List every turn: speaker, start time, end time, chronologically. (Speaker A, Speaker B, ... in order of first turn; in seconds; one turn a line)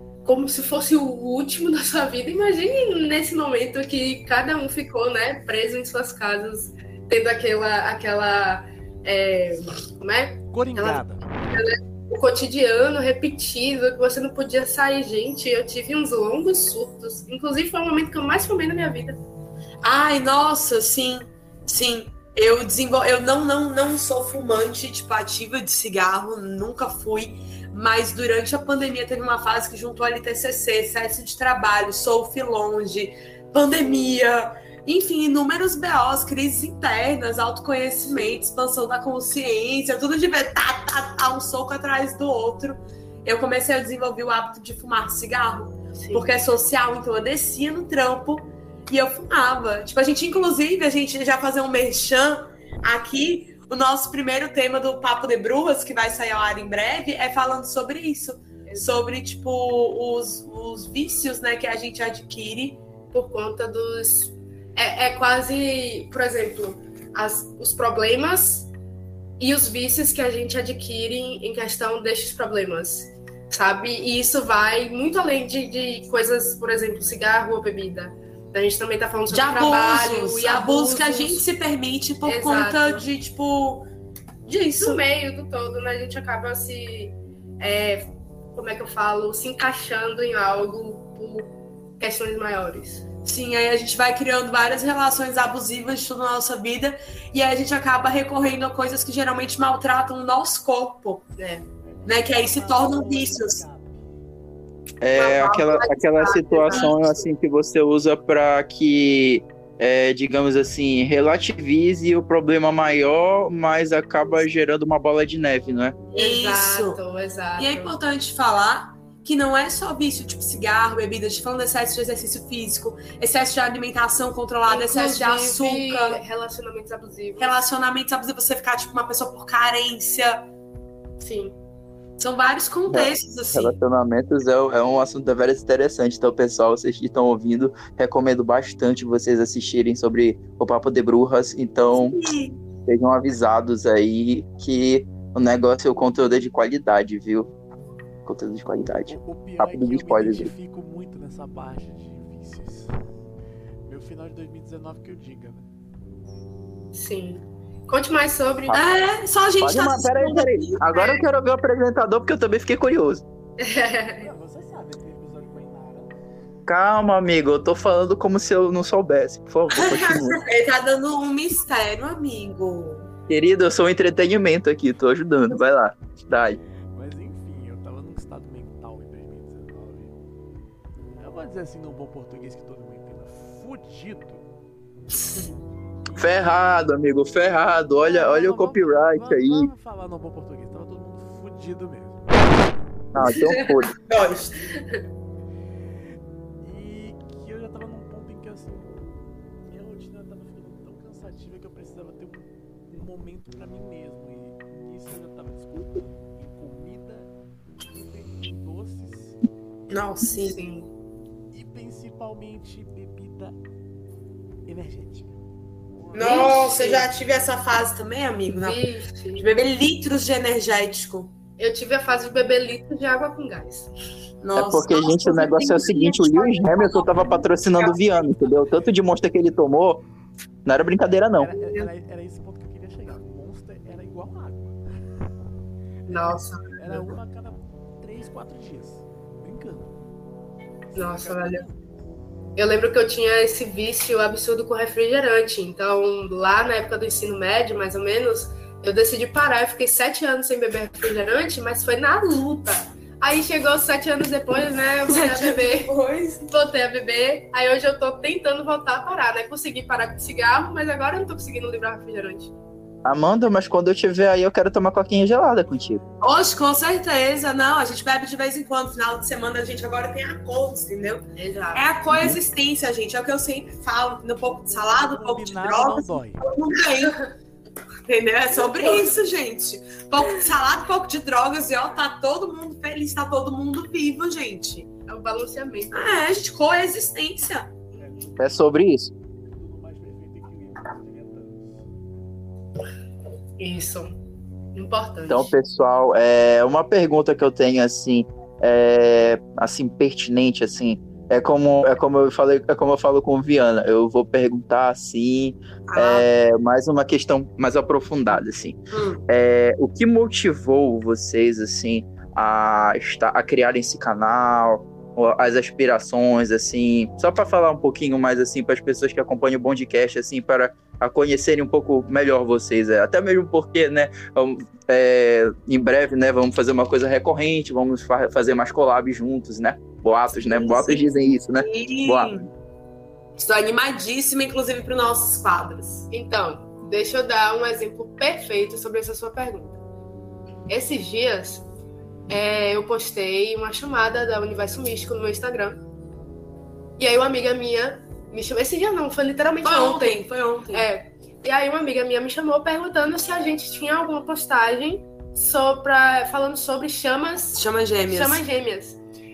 Speaker A: 0.2-19.2
Speaker B: 10.5-11.2
Speaker C: 19.8-62.8
Speaker A: 38.1-38.5
Speaker A: 46.0-46.2
Speaker A: 58.7-59.0
Speaker A: 63.1-68.7
Speaker A: 69.4-81.4
Speaker C: 79.3-83.9
Speaker A: 82.2-83.0
Speaker C: 84.5-85.0
Speaker A: 84.5-93.0
Speaker C: 93.2-101.3
Speaker A: 101.4-101.7
Speaker B: 101.8-104.1
Speaker C: 102.1-103.6
Speaker D: 105.0-116.0
Speaker A: 105.2-107.3
Speaker C: 116.1-117.0
Speaker A: 116.2-118.0
Speaker C: 117.6-126.2
Speaker A: 124.7-127.6
Speaker C: 127.4-130.5
Speaker A: 131.2-131.6
Speaker C: 132.2-133.8
Speaker D: 132.9-142.2
Speaker C: 141.9-142.6
Speaker D: 142.9-147.5
Speaker D: 148.3-150.5
Speaker B: 149.1-152.9
Speaker B: 153.9-155.7
Speaker A: 156.9-158.8
Speaker C: 158.7-161.3
Speaker D: 159.6-163.2
Speaker A: 163.6-164.3
Speaker B: 164.2-166.1
Speaker D: 166.7-170.4
Speaker C: 169.7-173.1
Speaker D: 173.3-176.6
Speaker B: 176.9-180.2
Speaker B: 181.2-184.5
Speaker B: 186.1-186.4
Speaker D: 186.2-189.7
Speaker B: 188.0-192.8
Speaker D: 193.1-193.9
Speaker A: 193.4-193.7
Speaker C: 194.0-194.6
Speaker A: 194.6-195.0
Speaker B: 196.6-199.1
Speaker B: 199.7-207.3
Speaker B: 207.9-209.4
Speaker C: 209.9-210.6
Speaker A: 210.4-210.9
Speaker B: 211.5-213.6
Speaker B: 214.7-215.4
Speaker B: 215.9-216.4
Speaker C: 216.1-218.8
Speaker A: 216.2-217.1
Speaker A: 218.5-219.4
Speaker C: 219.4-221.3
Speaker A: 221.6-223.9
Speaker C: 224.4-228.0
Speaker D: 224.6-230.0
Speaker D: 230.7-231.5
Speaker B: 231.4-235.2
Speaker A: 231.6-231.9
Speaker B: 236.1-240.0
Speaker A: 236.1-237.1
Speaker A: 240.9-241.6
Speaker B: 241.0-241.8
Speaker A: 242.6-255.9
Speaker C: 255.1-256.5
Speaker A: 256.5-262.5
Speaker D: 263.1-266.0
Speaker C: 266.2-277.2
Speaker A: 271.4-271.9
Speaker B: 275.0-276.4
Speaker C: 278.1-284.9
Speaker A: 278.6-278.9
Speaker A: 285.1-286.3
Speaker C: 285.9-287.7
Speaker B: 288.0-288.7
Speaker D: 288.4-289.1
Speaker B: 289.5-291.9
Speaker A: 293.6-294.2
Speaker A: 294.8-295.5
Speaker D: 295.3-308.8
Speaker C: 305.9-306.3
Speaker C: 308.9-309.3
Speaker D: 309.3-332.4
Speaker A: 330.3-331.2
Speaker C: 331.5-332.5
Speaker C: 333.4-336.1
Speaker A: 336.1-339.8
Speaker A: 340.7-341.6
Speaker A: 342.3-345.8
Speaker A: 347.0-359.0
Speaker C: 349.6-350.9
Speaker C: 357.6-358.4